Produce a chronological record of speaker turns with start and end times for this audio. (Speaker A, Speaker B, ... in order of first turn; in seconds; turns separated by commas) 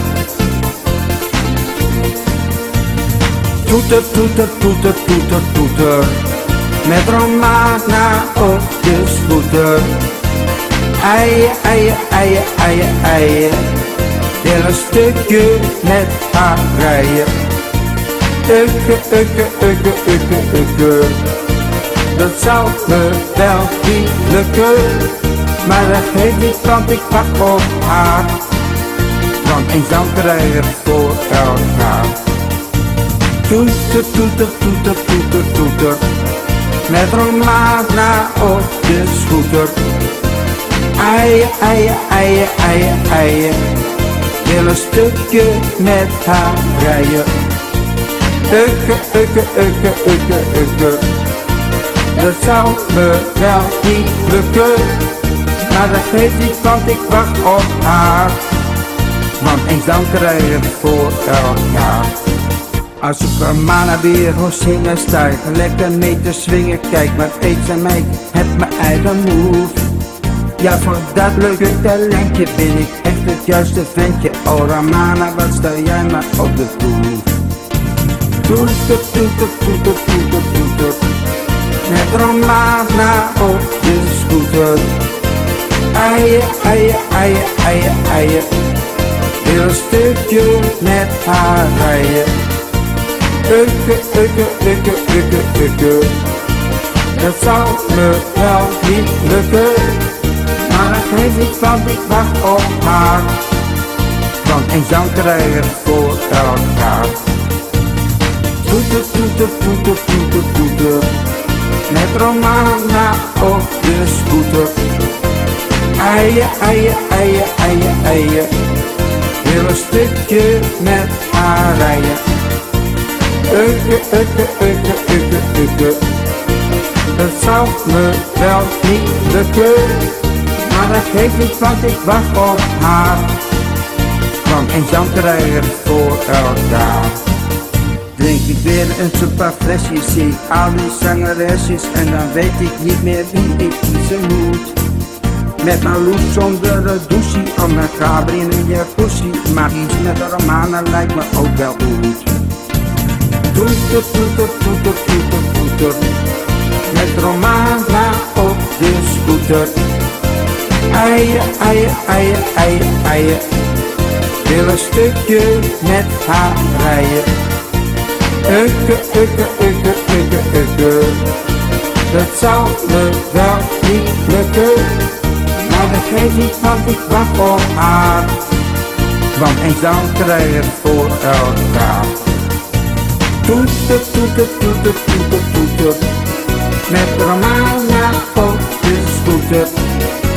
Speaker A: 3.6-6.3, Speaker A: 6.8-9.9, Speaker A: 11.0-13.8, Speaker A: 14.4-17.3, Speaker A: 18.4-21.3, Speaker A: 22.1-28.4, Speaker A: 29.4-32.2, Speaker A: 33.5-36.0, Speaker A: 36.9-39.8, Speaker A: 41.0-43.8, Speaker A: 44.4-47.3, Speaker A: 48.5-51.0, Speaker A: 52.1-55.1, Speaker A: 55.6-58.5, Speaker A: 59.4-62.1, Speaker A: 63.0-69.9, Speaker A: 70.6-77.3, Speaker A: 78.4-81.0, Speaker A: 81.9-84.9, Speaker A: 85.9-88.5, Speaker A: 89.4-92.3, Speaker A: 93.5-96.2, Speaker A: 97.2-100.1, Speaker A: 100.6-103.4, Speaker A: 104.4-107.2, Speaker A: 108.6-111.1, Speaker A: 111.9-114.8, Speaker A: 116.0-118.5, Speaker A: 119.4-122.2, Speaker A: 123.5-126.0, Speaker A: 127.1-133.4, Speaker A: 134.4-137.2, Speaker A: 138.1-144.8, Speaker A: 145.6-152.4, Speaker A: 153.5-156.0, Speaker A: 156.9-159.8, Speaker A: 160.9-163.4, Speaker A: 164.4-167.3, Speaker A: 168.4-171.3, Speaker A: 172.1-175.1, Speaker A: 175.6-178.4, Speaker A: 179.3-182.2, Speaker A: 183.4-186.0, Speaker A: 186.9-189.7